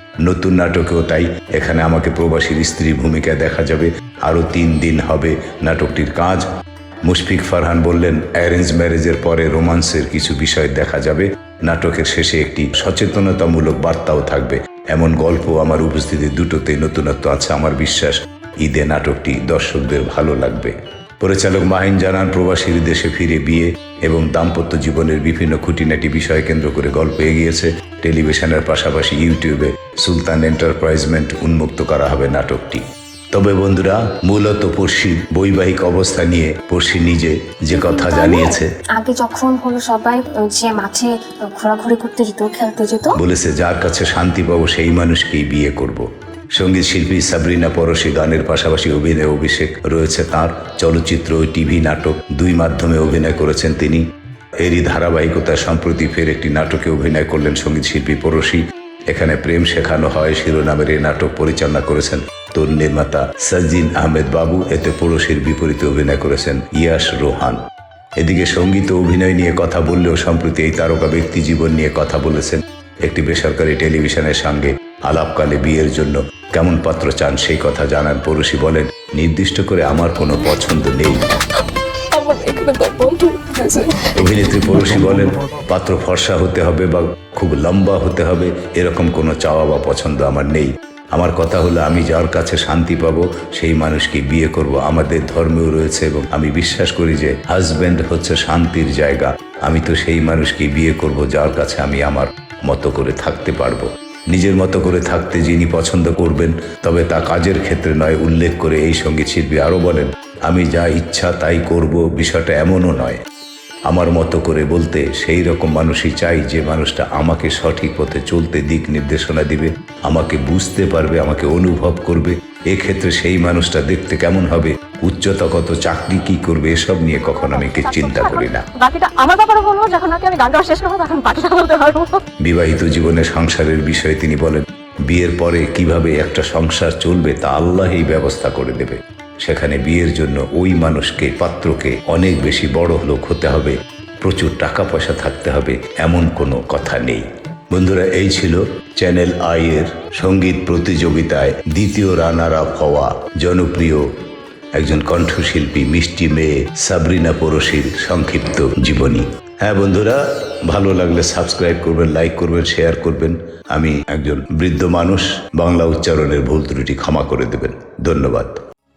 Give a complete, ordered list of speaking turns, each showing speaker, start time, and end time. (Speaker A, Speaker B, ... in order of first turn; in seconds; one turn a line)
Speaker A: 0.2-6.5
Speaker A: 7.0-38.7
Speaker B: 37.8-43.1
Speaker A: 43.1-54.0
Speaker A: 54.6-67.6
Speaker A: 68.2-81.2
Speaker C: 82.2-83.9
Speaker A: 84.2-113.2
Speaker A: 113.9-128.7
Speaker C: 127.4-132.2
Speaker A: 132.4-154.1
Speaker A: 154.8-168.6